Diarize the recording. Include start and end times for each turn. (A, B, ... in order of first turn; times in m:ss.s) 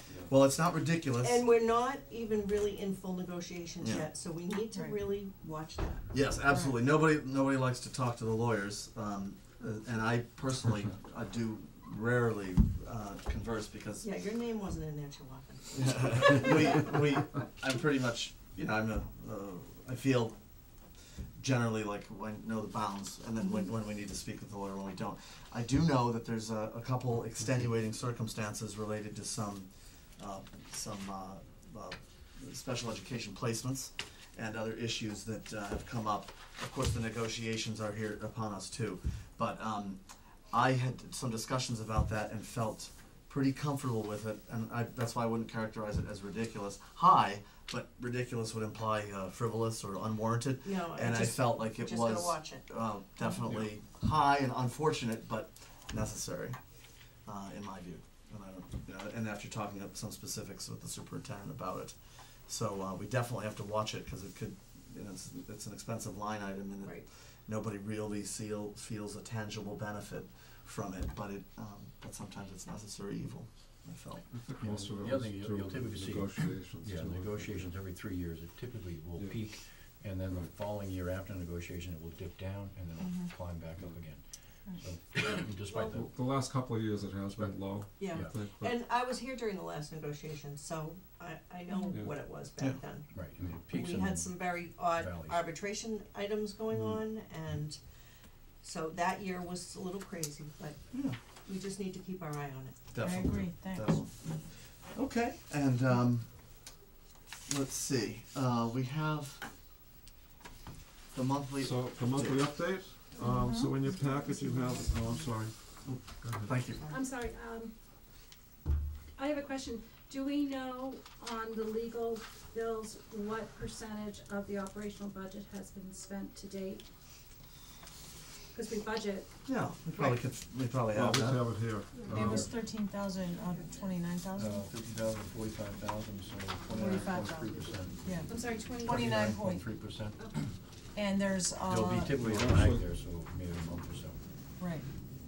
0:00.2-0:01.4 A
0:01.2-0:06.1 B
0:03.8-0:04.1 A
0:04.7-0:05.0 C
0:06.1-0:14.1 A
0:06.4-0:06.8 C
0:14.0-0:16.8 B
0:15.7-0:20.4 A
0:21.4-0:56.6 A
0:50.6-0:52.7 B
0:53.4-0:53.7 D
0:57.2-1:14.3 A
1:06.8-1:07.1 B
1:14.3-1:17.7 D
1:14.6-1:26.2 E
1:23.0-1:23.3 C
1:25.9-1:28.8 D
1:27.3-1:28.3 E
1:28.0-1:37.8 B
1:31.7-1:31.9 C
1:31.9-1:32.1 D
1:33.1-1:35.5 E
1:38.6-1:40.9 B
1:40.9-1:41.2 A
1:41.4-1:43.0 B
1:42.9-1:46.7 A
1:43.0-1:44.0 C
1:47.5-1:49.4 A
1:51.1-1:52.4 A
1:51.6-1:56.6 D
1:53.2-1:53.8 C
1:53.8-1:54.2 F
1:56.4-1:56.8 A
1:56.6-1:57.0 B
1:56.9-1:57.7 F
1:59.2-2:06.8 F
2:08.5-2:09.3 F
2:09.4-2:11.5 A
2:10.9-2:12.5 D
2:12.0-2:12.3 F
2:12.1-2:14.7 C
2:14.3-2:20.6 E
2:16.7-2:18.3 C
2:18.2-2:19.1 F
2:18.8-2:19.7 C
2:20.9-2:22.2 C
2:21.6-2:24.2 E
2:22.2-2:22.8 D
2:24.6-2:24.8 C